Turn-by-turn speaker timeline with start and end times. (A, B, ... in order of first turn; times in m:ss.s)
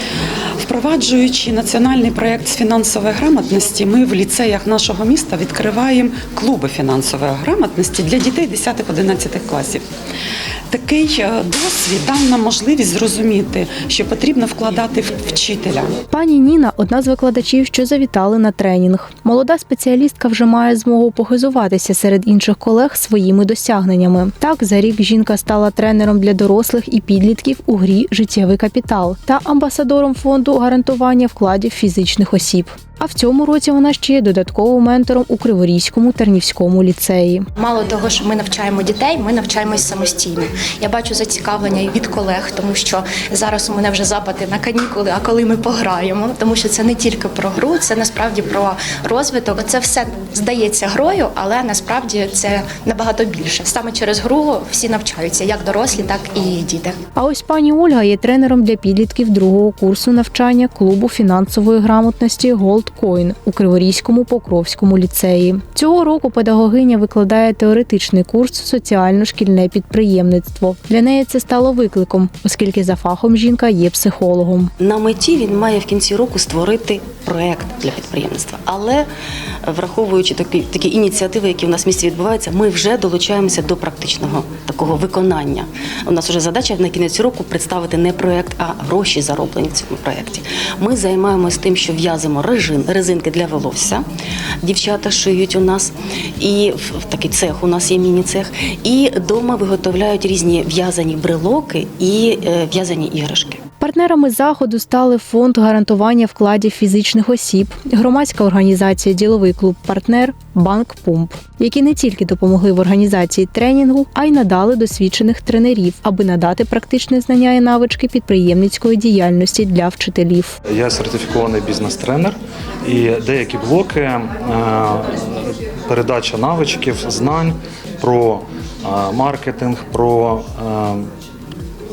0:00.6-0:09.8 A
0:10.7-0:15.9 A
0:16.1-0:37.4 B
0:37.6-0:57.0 C
0:57.2-1:14.7 B
1:14.8-1:19.1 D
1:19.6-1:34.0 D
1:34.6-1:43.6 D
1:43.8-2:00.6 B
2:00.7-2:11.1 E